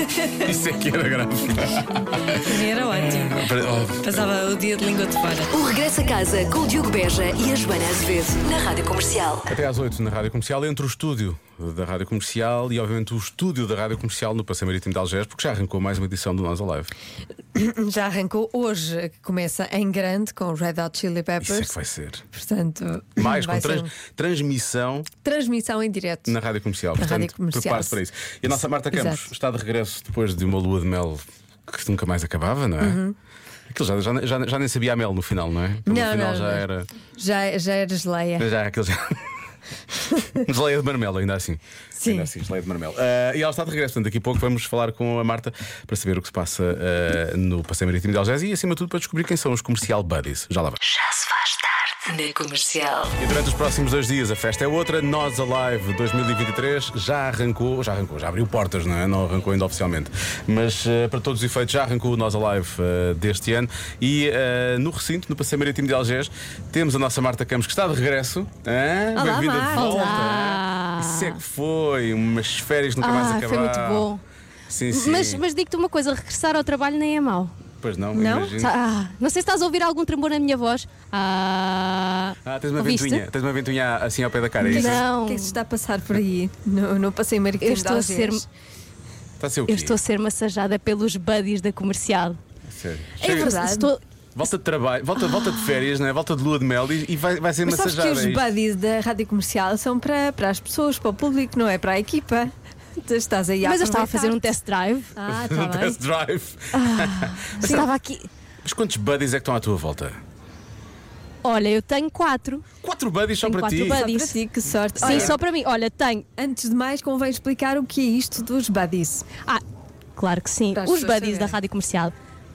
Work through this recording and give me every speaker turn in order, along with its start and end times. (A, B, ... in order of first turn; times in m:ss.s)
0:00.4-0:02.2 A
0:02.4-0:05.6 B
0:02.9-0:04.2 A
0:05.5-0:09.5 C
0:09.5-0:16.9 A
0:17.5-0:21.7 B
0:21.4-0:22.2 A
0:22.3-0:23.9 B
0:23.2-0:25.1 A
0:25.2-0:26.4 B
0:26.3-0:33.0 A
0:27.0-0:28.0 B
0:28.8-0:29.3 B
0:32.8-0:33.2 B
0:33.7-0:36.9 A
0:35.8-0:38.5 B
0:38.4-0:39.2 A
0:40.4-0:50.8 A
0:41.9-0:42.3 B
0:50.8-0:53.1 C
0:53.2-1:14.1 A
1:09.1-1:10.2 B
1:09.8-1:11.4 D
1:13.0-1:14.2 D
1:14.7-1:15.4 A
1:14.9-1:17.5 D
1:17.8-1:18.7 A
1:18.1-1:18.5 B
1:18.6-1:23.2 D
1:22.4-1:25.0 A
1:24.6-1:25.6 D
1:24.6-1:28.4 B
1:27.6-1:28.4 D
1:29.4-1:30.0 A
1:29.7-1:32.4 D
1:32.6-1:33.5 A
1:33.2-1:34.0 D
1:33.2-1:33.9 B
1:34.3-1:38.5 A
1:35.2-1:35.8 D
1:37.6-1:44.5 B
1:43.6-1:45.1 D
1:45.2-1:46.0 B
1:45.2-1:47.8 A
1:47.1-1:47.8 B
1:47.5-1:48.3 D
1:48.6-1:50.2 A
1:51.4-1:52.6 D
1:52.8-1:54.0 A
1:53.4-1:54.4 D
1:53.8-1:55.4 B
1:55.0-1:56.2 D
1:55.0-1:55.4 A
1:56.4-1:59.2 B
2:00.2-2:02.1 D
2:00.7-2:01.6 B